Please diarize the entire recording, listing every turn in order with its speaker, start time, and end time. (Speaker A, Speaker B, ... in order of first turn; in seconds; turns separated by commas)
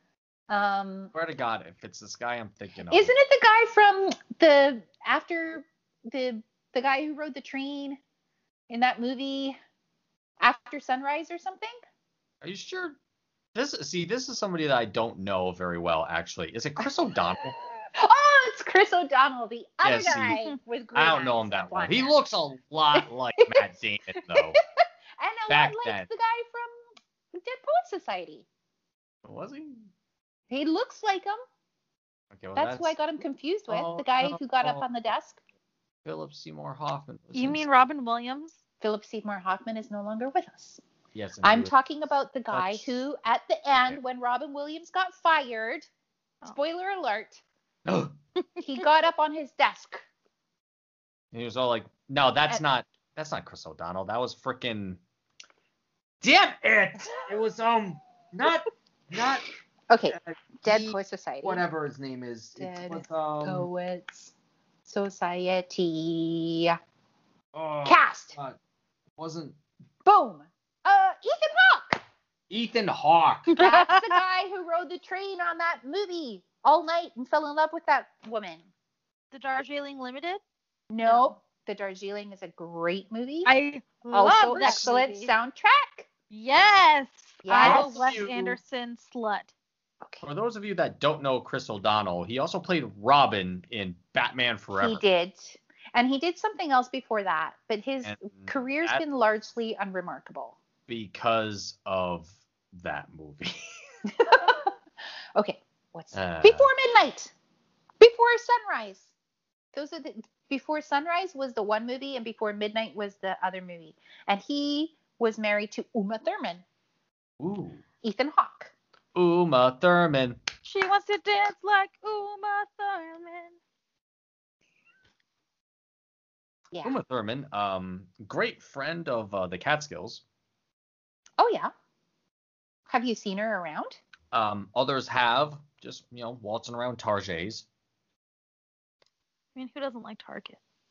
Speaker A: 0.5-1.1, Speaker B: 1.1-3.1, Speaker A: 2.9-8.0, Speaker A: 8.7-9.6, Speaker A: 10.4-11.8, Speaker B: 12.4-13.0, Speaker B: 13.6-17.6, Speaker A: 17.9-22.1, Speaker B: 19.8-20.4, Speaker C: 20.2-20.5, Speaker B: 20.9-24.6, Speaker A: 22.9-23.6, Speaker A: 24.2-24.6, Speaker A: 25.2-26.7, Speaker B: 25.5-26.1, Speaker A: 27.3-28.4, Speaker B: 29.2-29.9, Speaker A: 30.5-31.4, Speaker B: 32.3-33.0, Speaker A: 32.6-35.4, Speaker B: 33.7-34.9, Speaker B: 36.0-37.6, Speaker C: 37.3-38.6, Speaker A: 38.8-40.8, Speaker B: 41.1-41.7, Speaker A: 41.4-45.9, Speaker B: 42.5-43.0, Speaker A: 46.4-47.4, Speaker B: 47.9-48.1, Speaker A: 48.6-50.0, Speaker B: 51.3-55.0, Speaker B: 56.2-59.5, Speaker A: 59.9-61.6, Speaker B: 60.1-63.7, Speaker A: 62.6-64.3, Speaker A: 64.8-66.8, Speaker B: 67.5-68.6, Speaker A: 67.8-68.4, Speaker B: 69.2-69.6, Speaker A: 70.1-72.0, Speaker B: 72.5-73.5, Speaker C: 73.5-74.2, Speaker A: 73.6-78.7, Speaker C: 79.3-80.4, Speaker A: 80.9-83.5, Speaker C: 81.0-81.3, Speaker C: 83.5-85.3, Speaker A: 84.1-86.1, Speaker B: 84.6-84.9, Speaker C: 86.3-89.5, Speaker A: 87.5-88.2, Speaker B: 87.6-88.6, Speaker B: 90.2-95.0, Speaker A: 94.7-100.6, Speaker B: 98.0-99.0, Speaker B: 100.9-103.6, Speaker A: 104.1-104.7, Speaker A: 105.4-107.3, Speaker B: 106.1-106.7, Speaker A: 108.0-109.1, Speaker A: 109.7-116.6, Speaker B: 117.4-117.8, Speaker A: 118.0-118.7, Speaker B: 119.1-120.4, Speaker C: 120.6-123.6, Speaker A: 126.7-127.0, Speaker B: 126.8-130.2, Speaker A: 131.4-131.7, Speaker A: 132.9-134.0, Speaker B: 134.3-137.6, Speaker C: 139.6-140.6